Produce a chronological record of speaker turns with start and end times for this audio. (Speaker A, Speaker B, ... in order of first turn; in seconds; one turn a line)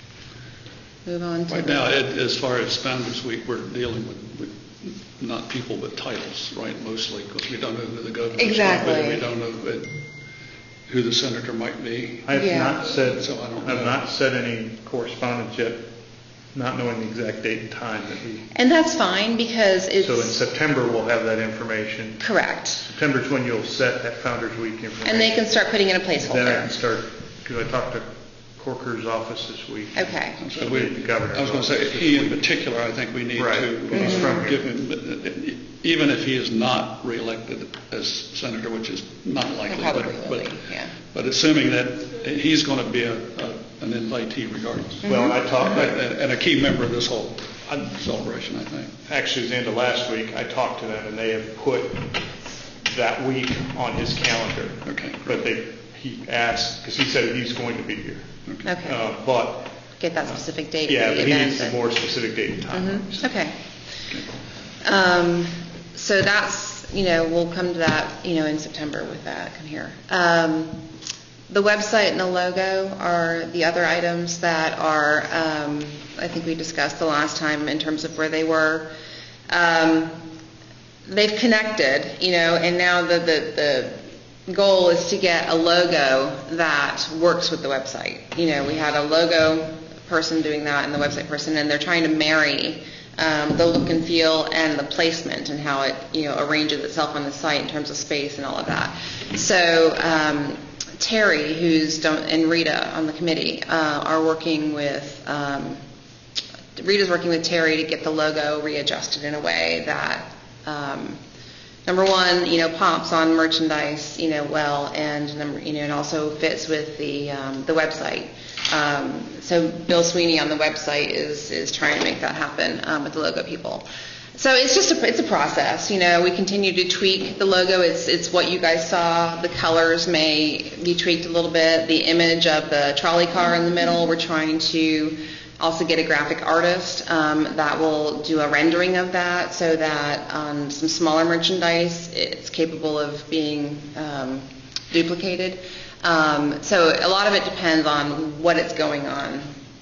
Speaker A: 1.1-1.9
Speaker B: 1.5-9.9
Speaker A: 8.3-9.2
Speaker B: 10.9-12.3
Speaker C: 12.3-15.9
Speaker A: 12.3-12.8
Speaker B: 12.8-14.0
Speaker C: 16.5-18.4
Speaker A: 18.5-20.3
Speaker C: 20.0-22.3
Speaker A: 22.2-22.9
Speaker C: 22.8-25.4
Speaker A: 25.0-26.7
Speaker C: 26.2-32.4
Speaker A: 29.9-30.4
Speaker B: 30.4-48.9
Speaker C: 33.4-34.6
Speaker A: 33.9-34.5
Speaker A: 39.7-40.9
Speaker A: 45.0-45.4
Speaker C: 45.1-46.0
Speaker C: 49.1-52.2
Speaker C: 52.8-58.3
Speaker B: 54.9-55.5
Speaker B: 58.5-58.7
Speaker A: 58.6-59.0
Speaker C: 58.8-63.3
Speaker A: 60.0-61.8
Speaker A: 62.7-63.5
Speaker B: 64.1-64.4
Speaker A: 64.8-70.8
Speaker A: 71.5-78.9
Speaker A: 79.5-80.2
Speaker A: 81.1-84.0
Speaker A: 84.5-105.8
Speaker A: 106.8-111.2
Speaker A: 111.9-149.5